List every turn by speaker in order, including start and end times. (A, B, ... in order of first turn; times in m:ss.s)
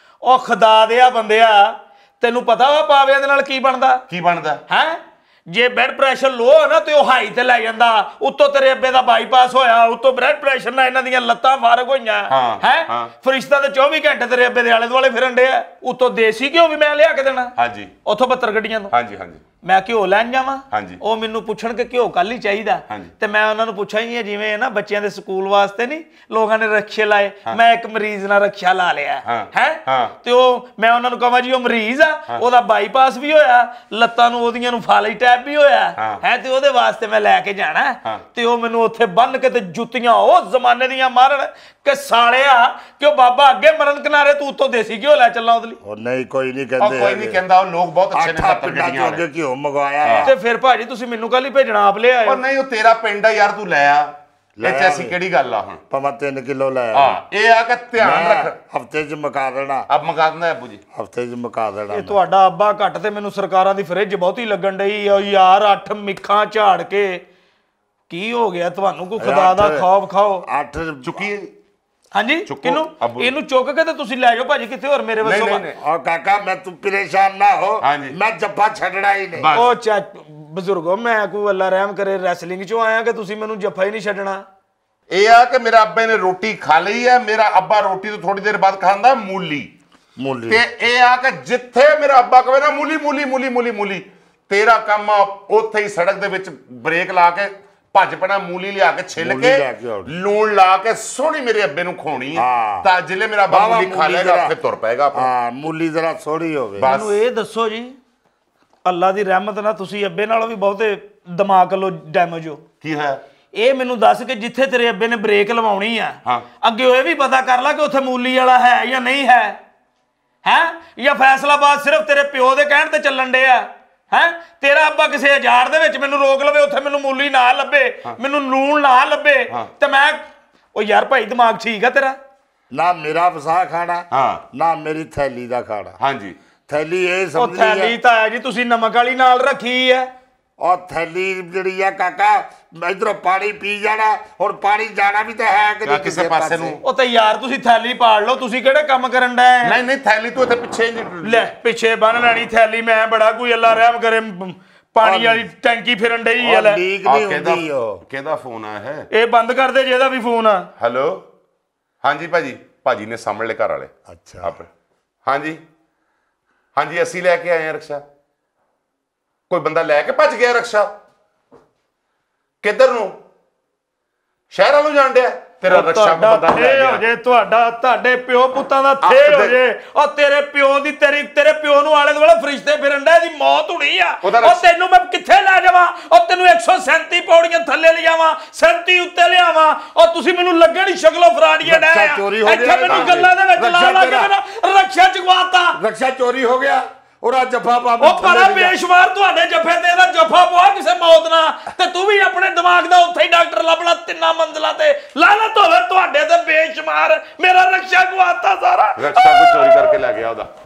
0:00.2-0:04.0 A
0:04.1-0:04.6 B
0:04.7-0:17.5 A
0:12.3-0:13.1 B
0:17.6-0:17.9 B
0:18.0-0:18.9 A
0:18.9-0:19.4 B
0:19.6-0:45.8 A
0:20.7-0:21.0 B
0:29.3-0:30.1 B
0:45.8-0:47.4 C
0:46.8-0:49.2 B
0:48.1-0:50.4 C
0:50.0-0:50.3 B
0:50.2-0:52.4 A
0:52.3-0:55.8 B
0:54.6-0:55.2 C
0:55.9-0:57.2 C
0:56.9-0:58.6 B
0:58.0-0:59.9 C
0:59.9-1:00.8 B
1:00.9-1:02.2 C
1:01.9-1:07.2 A
1:08.1-1:10.4 A
1:09.2-1:09.9 C
1:10.4-1:11.3 C
1:11.0-1:11.5 B
1:12.1-1:15.6 A
1:12.5-1:13.4 B
1:15.2-1:15.8 B
1:15.8-1:19.5 C
1:17.8-1:18.2 B
1:19.4-1:19.7 B
1:19.5-1:24.4 A
1:25.1-1:29.7 B
1:30.2-1:30.6 C
1:30.5-1:45.3 B
1:39.2-1:40.1 C
1:42.4-1:42.9 C
1:43.5-1:44.5 C
1:45.1-1:46.9 C
1:46.8-1:47.2 B
1:46.8-1:48.0 A
1:48.8-1:52.6 A
1:52.8-1:53.2 B
1:53.5-1:59.6 A
2:00.4-2:12.2 A
2:12.7-2:16.0 C
2:14.1-2:14.4 B
2:16.0-2:16.4 B
2:16.7-2:18.0 C
2:17.4-2:20.1 A
2:20.6-2:26.8 C
2:25.8-2:26.8 B
2:26.8-2:29.8 A
2:29.6-2:31.5 B
2:31.2-2:36.8 A
2:35.0-2:35.5 C
2:36.4-2:38.0 C
2:37.0-2:39.1 B
2:39.1-2:40.7 A
2:40.8-2:41.2 B
2:42.0-2:43.9 B
2:44.1-2:44.6 C
2:44.4-2:44.7 B
2:45.3-2:45.6 B
2:46.8-2:48.0 B
2:49.5-2:50.9 B
2:52.6-2:53.1 B
2:54.5-2:57.0 B
2:55.7-3:15.8 A
2:59.0-2:59.6 B
3:04.2-3:04.6 B
3:11.6-3:14.3 C
3:12.9-3:13.3 B
3:15.8-3:18.8 C
3:18.0-3:29.9 A
3:29.0-3:30.5 B